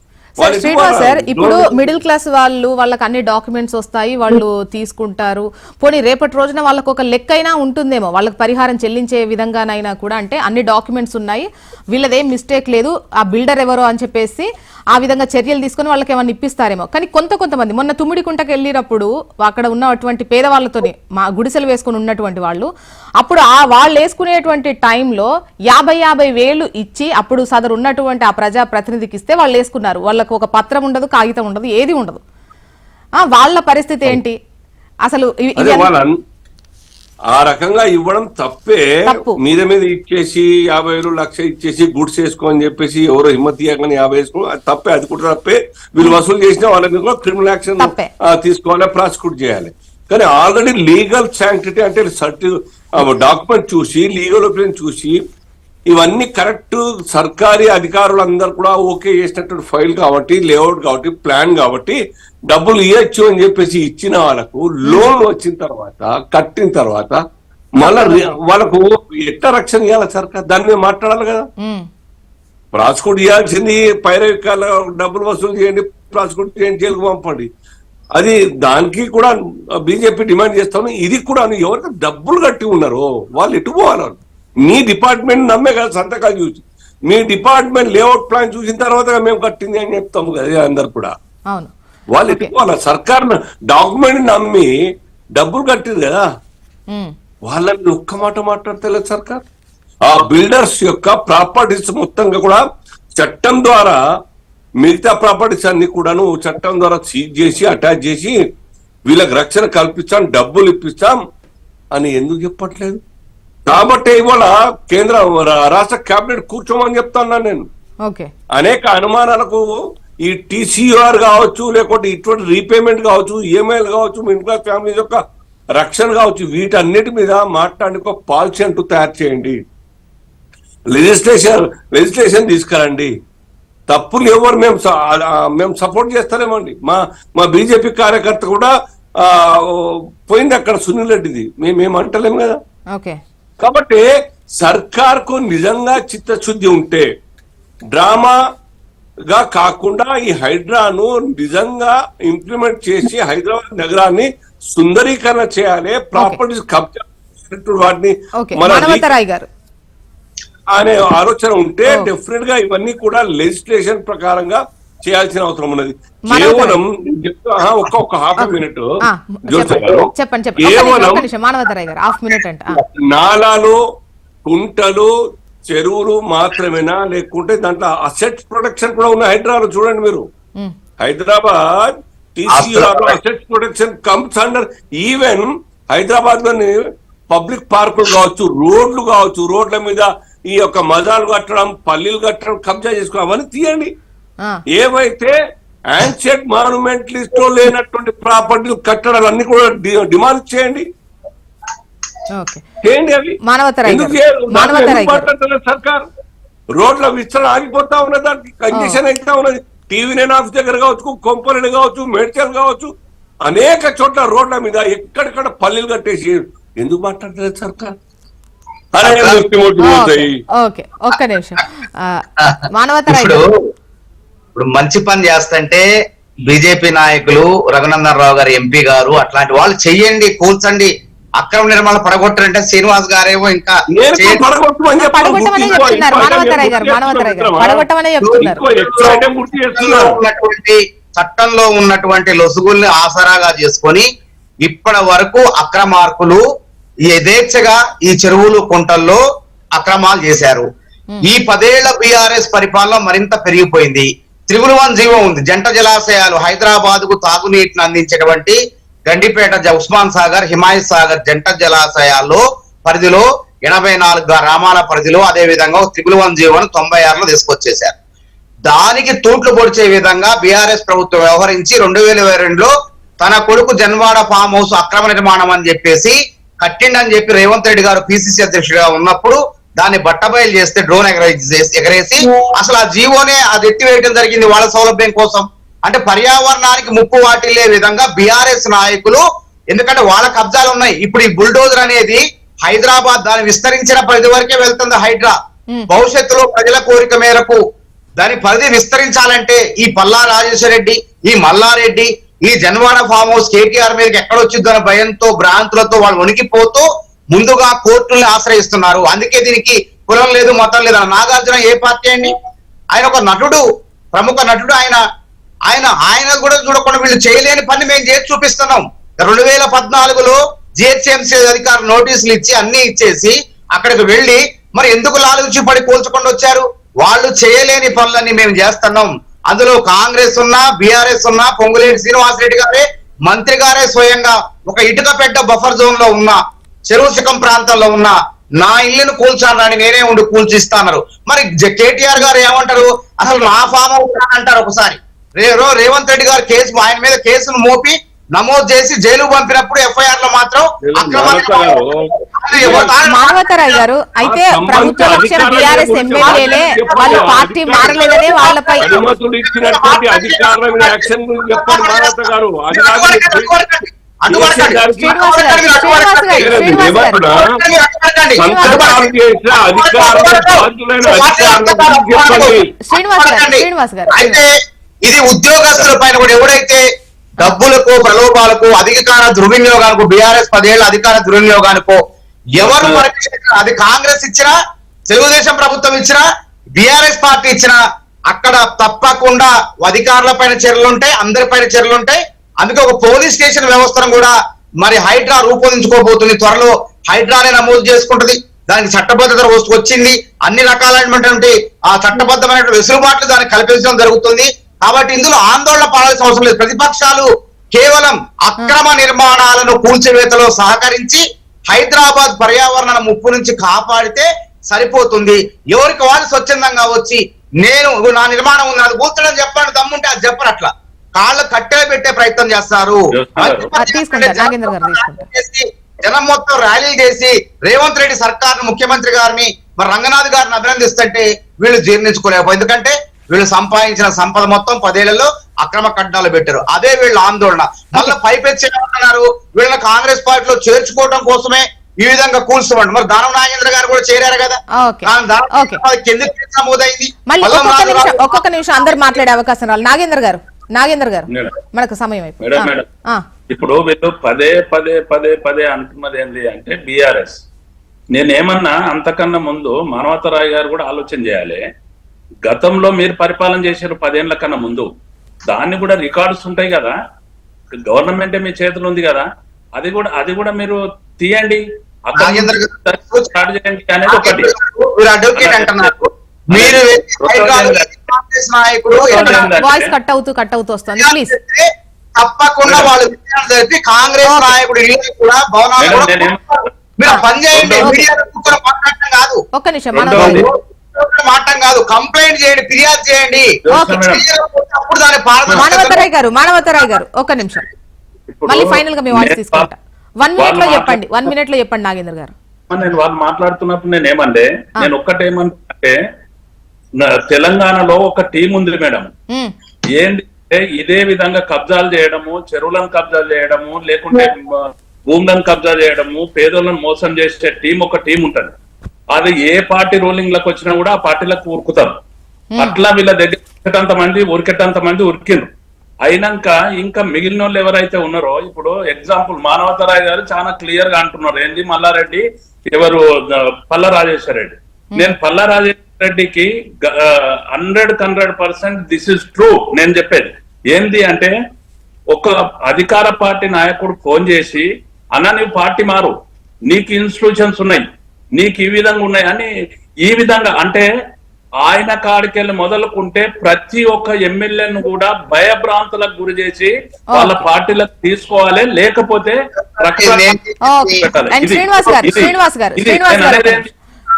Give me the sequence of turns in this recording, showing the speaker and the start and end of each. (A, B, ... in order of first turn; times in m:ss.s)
0:00.4-0:01.9 A
0:00.4-0:22.7 B
0:23.2-0:32.2 B
0:33.2-0:34.4 B
0:35.1-0:35.9 B
0:35.6-0:36.2 A
0:37.3-0:55.2 A
0:39.1-0:39.4 B
0:47.8-0:48.1 B
0:55.9-1:07.2 A
1:04.8-1:05.1 B
1:07.8-1:11.5 A
1:07.8-1:08.3 B
1:11.6-1:11.9 B
1:12.7-1:17.5 A
1:18.2-1:31.1 A
1:32.1-1:34.7 A
1:35.4-1:36.3 A
1:37.5-1:39.4 A
1:40.0-1:42.6 A
1:43.2-1:44.0 A
1:44.8-1:48.4 A
1:49.1-1:51.2 A
1:51.9-1:53.0 A
1:53.7-1:57.7 A
1:58.0-1:58.3 B
1:58.6-2:05.2 A
2:05.7-2:09.6 A
2:10.9-2:13.1 A
2:13.9-2:22.6 A
2:22.9-2:23.2 B
2:23.6-2:27.1 A
2:27.9-2:28.4 A
2:29.3-2:39.1 A
2:38.4-2:39.5 B
2:40.7-2:49.0 A
2:46.3-2:46.8 B
2:49.0-2:52.8 B
2:49.5-2:51.3 A
2:52.8-2:53.8 A
2:54.4-2:55.1 A
2:55.7-3:00.3 A
3:01.0-3:13.9 A
3:02.5-3:03.2 C
3:14.7-3:15.4 A
3:15.9-3:20.9 A
3:22.3-3:22.6 B
3:22.8-3:26.1 A
3:23.4-3:25.3 B
3:26.7-3:32.9 A
3:28.7-3:29.0 B
3:33.4-3:38.0 A
3:38.9-3:40.4 A
3:39.0-3:39.4 C
3:39.8-3:43.4 B
3:42.4-3:43.4 C
3:44.6-3:45.8 C
3:46.5-3:54.4 C
3:53.9-3:57.8 A
3:55.0-3:58.6 B
3:58.2-4:04.1 C
3:58.4-4:00.2 A
4:04.6-4:06.4 C
4:07.1-4:09.2 C
4:09.8-4:10.7 C
4:11.2-4:28.0 C
4:28.7-4:55.3 C
4:55.9-4:57.6 C
4:58.2-5:12.3 C
5:12.9-5:15.0 C
5:15.7-5:36.4 C
5:36.9-5:51.8 C
5:50.8-5:52.9 A
5:52.4-5:53.8 C
5:52.6-5:58.9 B
5:54.2-5:58.2 A
5:55.6-6:02.2 C
5:58.8-6:03.5 A
6:02.7-6:12.6 C
6:04.3-6:05.2 A
6:05.0-6:07.2 B
6:06.4-6:07.4 A
6:08.4-6:12.7 A
6:08.4-6:08.9 B
6:12.9-6:14.4 B
6:13.2-6:14.5 C
6:15.0-6:16.8 C
6:17.4-6:22.0 C
6:22.5-6:24.6 C
6:22.6-6:23.0 D
6:25.1-6:26.2 C
6:26.8-6:27.8 C
6:28.3-7:28.3 C
7:03.1-7:03.7 D
7:03.8-7:05.2 B
7:24.8-7:25.8 B
7:27.3-7:33.2 B
7:32.4-7:32.9 D
7:33.5-7:37.4 D
7:38.1-7:41.6 D
7:42.4-7:44.9 D
7:45.4-7:47.0 D
7:47.8-7:49.2 D
7:49.8-7:54.5 D
7:52.2-7:53.3 C
7:54.1-7:59.5 C
7:55.4-7:55.9 D
7:56.5-7:57.9 D
7:59.0-7:59.9 D
7:59.6-8:01.3 B
8:01.0-8:06.3 C
8:02.6-8:02.9 D
8:04.2-8:04.5 B
8:05.8-8:06.5 D
8:07.0-8:09.4 C
8:07.5-8:08.0 D
8:09.6-8:10.4 B
8:09.9-8:10.4 D
8:10.1-8:16.0 C
8:13.7-8:14.2 D
8:13.7-8:14.0 B
8:15.6-8:17.7 B
8:18.3-8:19.7 D
8:18.5-8:22.3 B
8:20.4-8:21.3 D
8:22.7-8:26.0 D
8:27.0-8:29.1 D
8:29.9-8:38.5 D
8:39.1-8:41.9 D
8:42.6-8:45.5 D
8:46.0-9:01.3 D
9:02.1-9:06.1 D
9:06.7-9:09.5 D
9:10.0-9:10.9 D
9:11.6-9:20.4 D
9:19.8-9:21.0 C
9:20.6-9:23.6 B
9:21.0-9:23.7 D